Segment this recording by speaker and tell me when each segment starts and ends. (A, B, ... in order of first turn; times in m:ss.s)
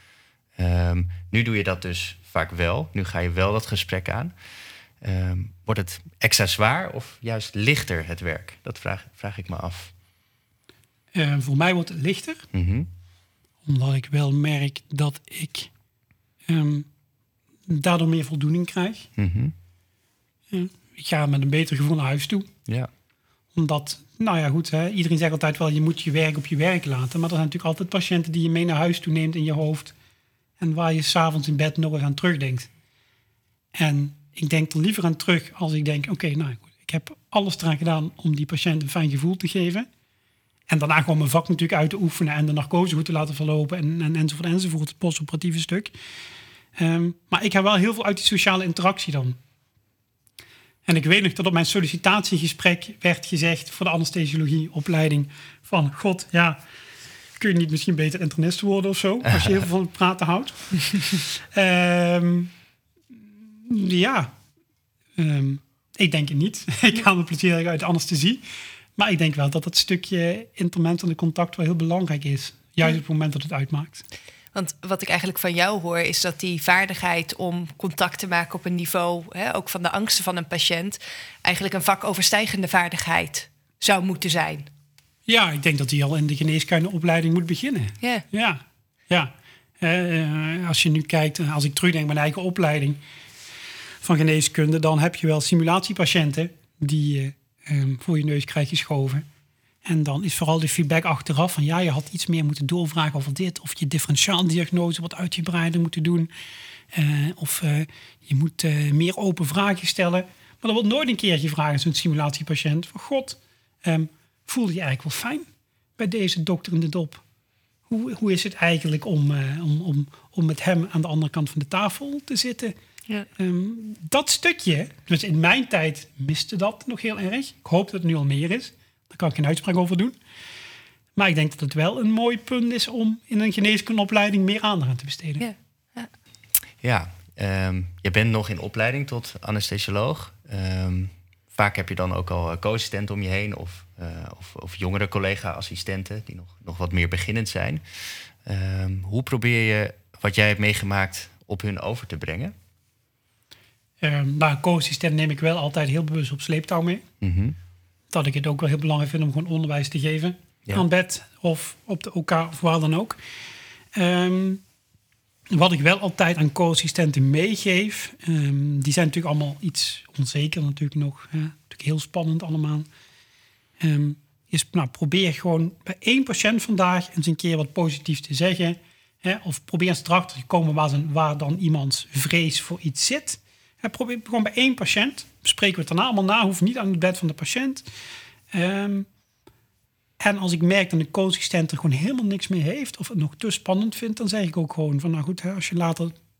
0:00.6-0:04.3 A
0:05.0-0:09.9 A
0:11.1-0:12.5 B
0:12.5-0:12.9 A
0:13.6-0:15.7 B
0:16.5-0:16.9 B
0:17.7-0:19.1 B
0:19.2-0:19.5 A
0:20.5-0:22.5 B
0:23.5-0:29.9 B
0:30.6-0:32.7 B
0:33.7-0:39.9 B
0:40.7-0:45.9 B
0:46.8-0:49.4 B
0:50.8-0:56.6 B
0:57.4-1:02.5 B
1:03.4-1:04.3 B
1:05.2-1:08.4 B
1:09.0-1:14.0 B
1:14.5-1:24.7 C
1:25.3-1:33.0 B
1:34.0-1:39.2 B
1:39.8-1:46.3 B
1:46.9-1:57.2 B
1:57.9-2:02.7 B
2:03.3-2:10.2 B
2:11.2-2:15.4 B
2:15.4-2:16.1 C
2:16.8-2:27.8 A
2:28.4-2:32.5 A
2:34.0-2:37.0 B
2:37.2-2:37.6 A
2:38.1-2:43.2 B
2:43.9-2:44.6 B
2:45.5-2:52.9 B
2:53.8-3:07.8 B
3:08.5-3:09.1 B
3:10.2-3:16.2 B